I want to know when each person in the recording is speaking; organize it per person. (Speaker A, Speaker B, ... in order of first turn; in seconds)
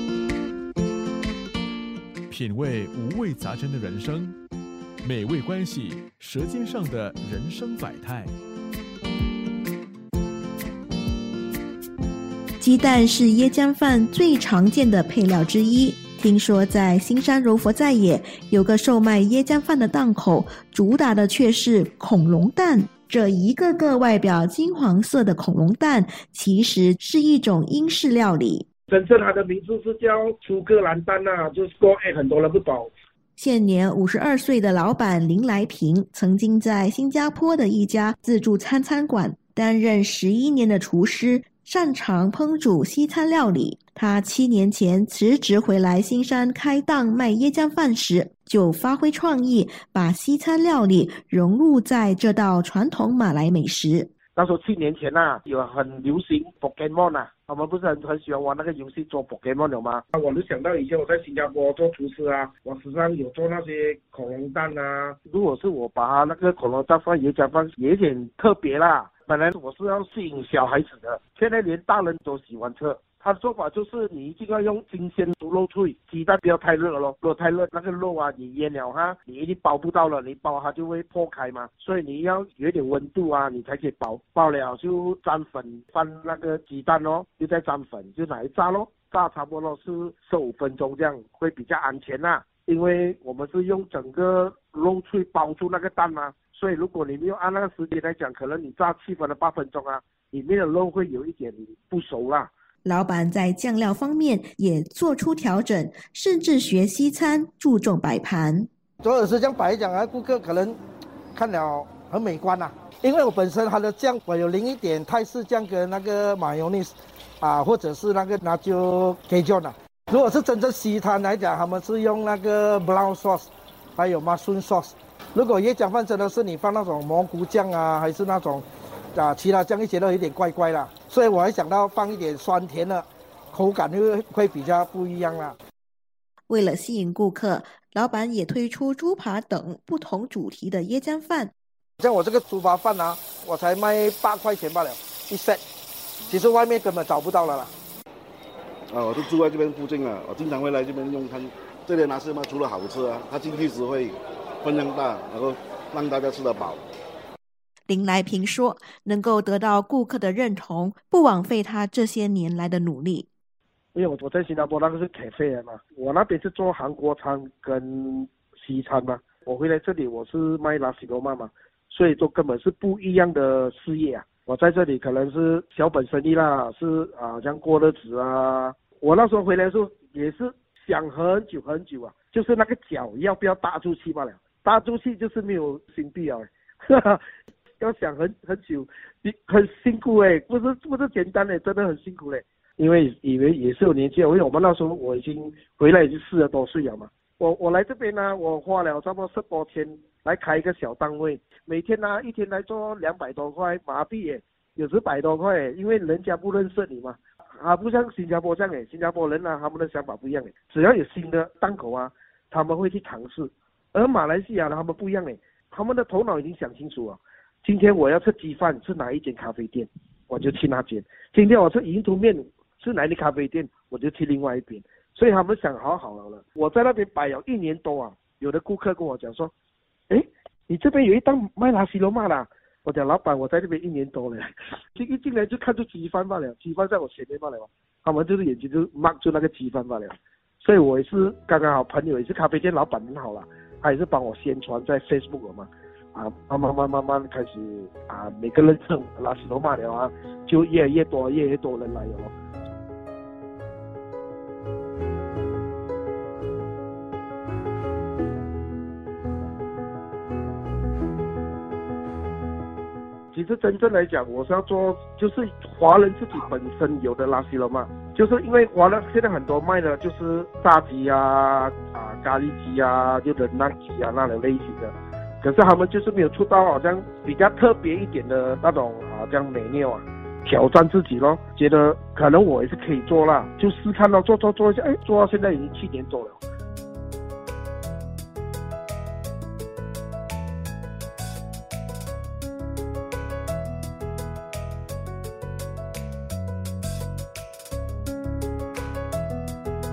Speaker A: 2.3-4.4, 5.0-8.3
Speaker B: 12.6-28.7, 33.4-54.1, 102.8-108.7, 136.5-141.5, 157.9-163.3
Speaker C: 28.9-32.9, 54.4-102.5, 163.9-187.2, 187.8-229.5, 230.1-252.3, 263.3-286.4
Speaker D: 109.0-110.8, 111.3-135.6, 142.0-145.6, 146.3-147.7
Speaker E: 148.9-156.9